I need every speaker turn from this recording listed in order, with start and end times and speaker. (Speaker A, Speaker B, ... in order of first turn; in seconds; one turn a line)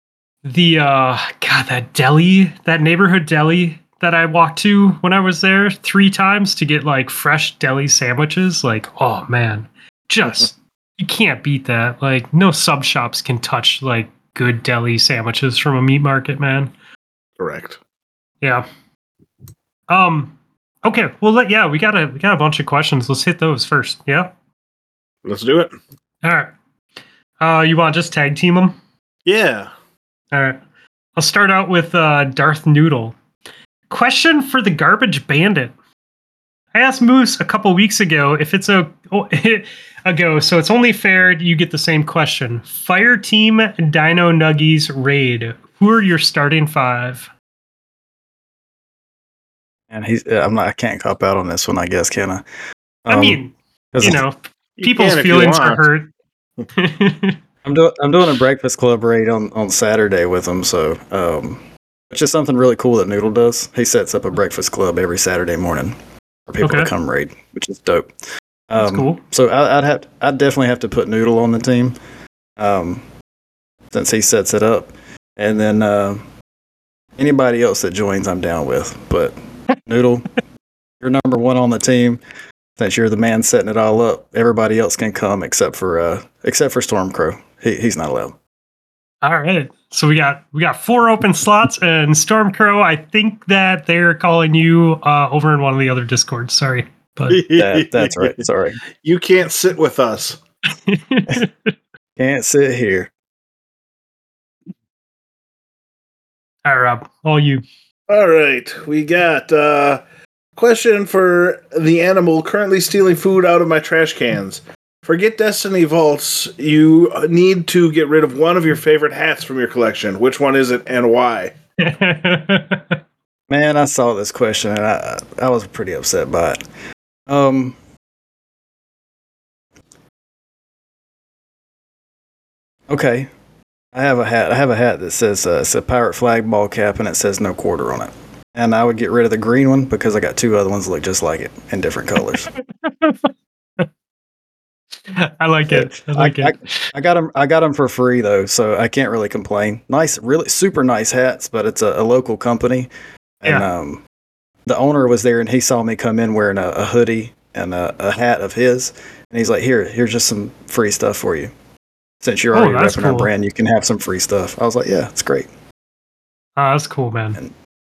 Speaker A: 0.4-16.7
Speaker B: 17.4-17.8
Speaker A: 19.9-24.3
Speaker B: 25.2-25.7
Speaker A: 26.2-26.5
Speaker A: 27.4-28.8
Speaker B: 29.2-29.7
Speaker A: 30.3-30.6
Speaker A: 31.1-33.1
Speaker A: 33.9-35.7
Speaker A: 36.7-47.3
Speaker C: 49.9-52.4
Speaker C: 53.0-53.4
Speaker A: 53.1-56.1
Speaker C: 53.9-54.2
Speaker B: 54.8-55.8
Speaker A: 56.8-57.4
Speaker C: 57.6-66.0
Speaker C: 66.5-68.1
Speaker A: 66.6-66.9
Speaker C: 68.7-72.0
Speaker A: 68.8-69.2
Speaker C: 72.6-73.0
Speaker C: 73.9-76.2
Speaker C: 77.2-80.3
Speaker C: 81.0-82.2
Speaker C: 82.8-88.3
Speaker A: 89.2-97.4
Speaker B: 97.3-98.4
Speaker C: 97.5-98.8
Speaker B: 99.0-100.4
Speaker A: 100.8-101.7
Speaker C: 102.2-103.1
Speaker A: 106.6-107.6
Speaker B: 108.1-110.0
Speaker B: 110.5-121.5
Speaker A: 121.8-123.0
Speaker C: 123.5-126.6
Speaker C: 127.3-127.8
Speaker C: 132.9-133.3
Speaker C: 133.9-142.5
Speaker A: 142.8-143.9
Speaker A: 145.1-146.9
Speaker C: 145.7-152.9
Speaker C: 153.4-154.0
Speaker C: 154.7-161.5
Speaker C: 162.2-165.5
Speaker A: 162.5-163.3
Speaker A: 166.6-167.4